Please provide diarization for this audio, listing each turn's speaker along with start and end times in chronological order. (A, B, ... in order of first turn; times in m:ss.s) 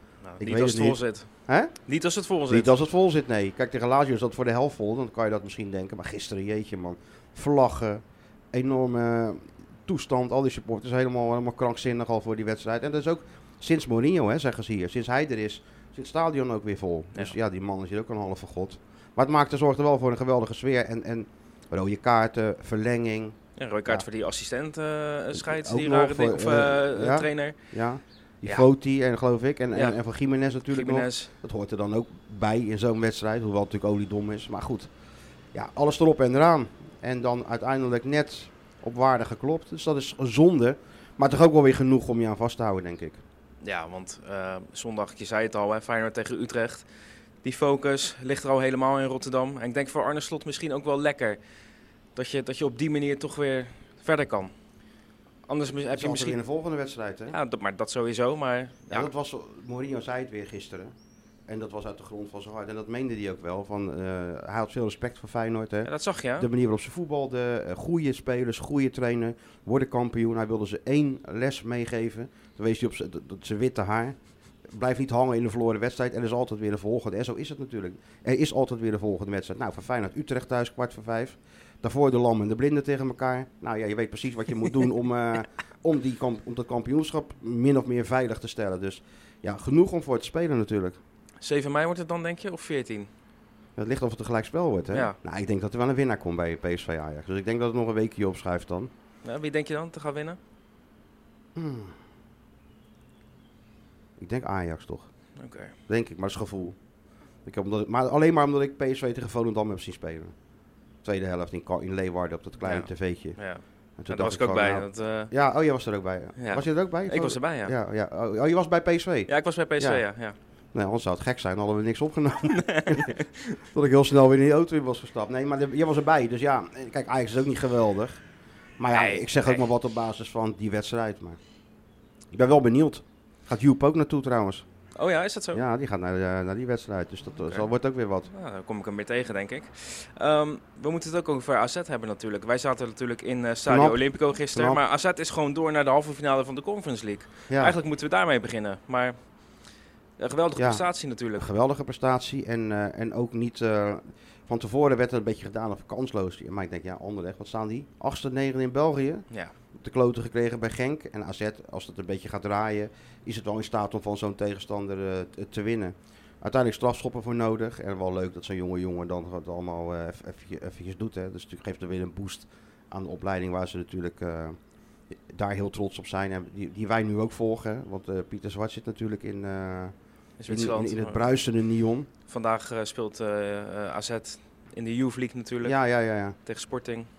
0:00.2-0:01.3 A
0:00.4-0:01.8 B
0:01.8-0:02.7 A
0:02.5-0:23.3 B
0:23.6-0:27.6 A
0:25.3-0:34.9 B
0:30.7-0:31.3 A
0:35.5-0:43.2 B
0:43.6-0:46.9 A
0:47.4-0:51.4 A
0:52.2-0:54.5 A
0:55.5-0:56.4 A
0:55.9-0:57.4 B
0:57.3-0:59.1 A
0:58.9-1:00.9 B
1:01.5-1:14.2 B
1:05.8-1:06.5 A
1:14.7-1:31.0 B
1:31.4-1:33.1 A
1:33.8-1:38.9 B
1:34.9-1:35.2 A
1:39.2-1:40.4 A
1:41.6-1:41.9 B
1:44.2-1:45.1 B
1:45.4-1:45.7 A
1:45.9-1:46.8 B
1:47.4-1:50.3 B
1:51.0-1:53.4 B
1:52.6-1:55.3 A
1:54.0-2:00.0 B
1:56.4-1:57.7 A
1:59.3-2:00.4 A
2:00.7-2:08.2 B
2:02.5-2:03.6 A
2:08.8-2:11.4 B
2:08.9-2:09.7 A
2:12.3-2:14.6 B
2:14.9-2:15.6 A
2:15.5-2:18.3 B
2:18.3-2:29.2 A
2:23.7-2:24.8 B
2:27.5-2:27.8 B
2:30.2-2:31.5 A
2:30.6-2:39.2 B
2:39.8-2:54.6 B
2:55.1-2:59.9 B
3:00.4-3:01.4 A
3:00.5-3:02.1 B
3:02.3-3:05.8 A
3:05.6-3:06.4 B
3:06.4-3:07.1 A